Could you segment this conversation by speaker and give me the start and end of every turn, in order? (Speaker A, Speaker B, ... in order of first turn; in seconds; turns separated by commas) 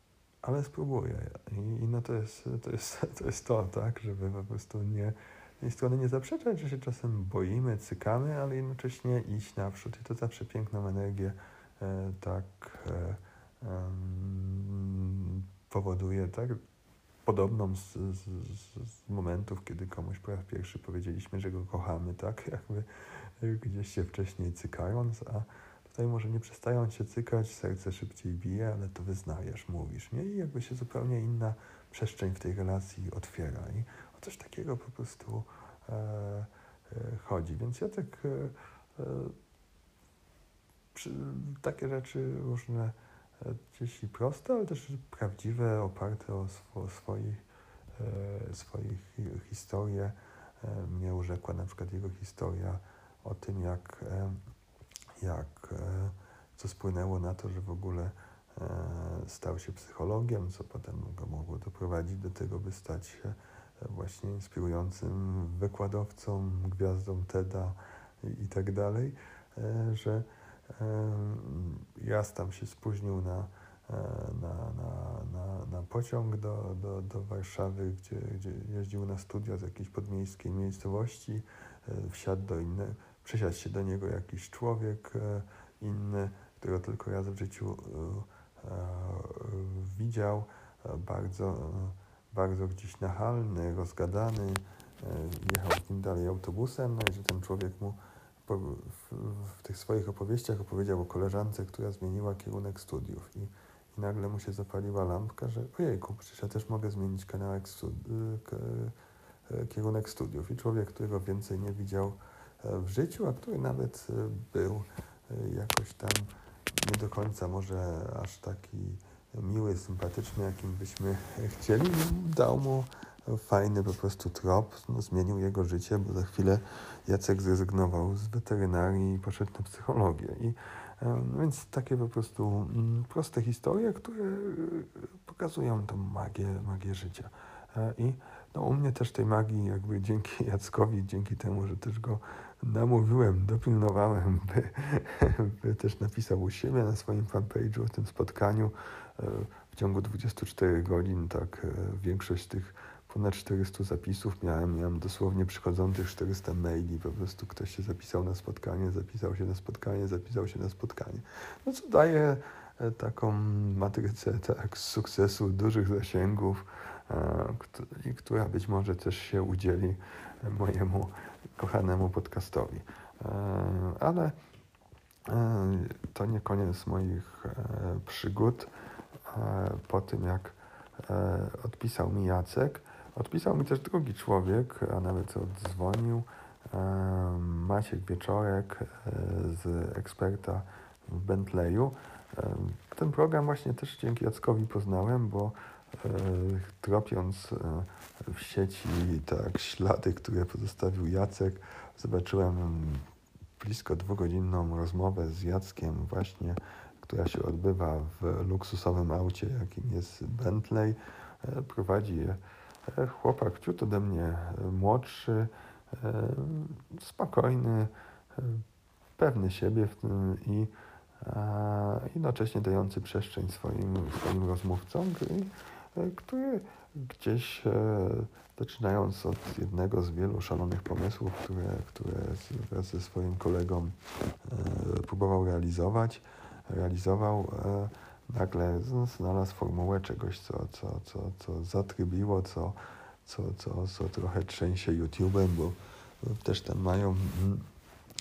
Speaker A: 0.4-16.6, Speaker A: 17.2-39.3, Speaker A: 41.0-47.4, Speaker A: 48.0-54.4, Speaker A: 55.2-109.0, Speaker A: 109.5-174.4, Speaker A: 175.3-178.7, Speaker A: 179.3-203.1, Speaker A: 203.6-218.6, Speaker A: 219.2-247.7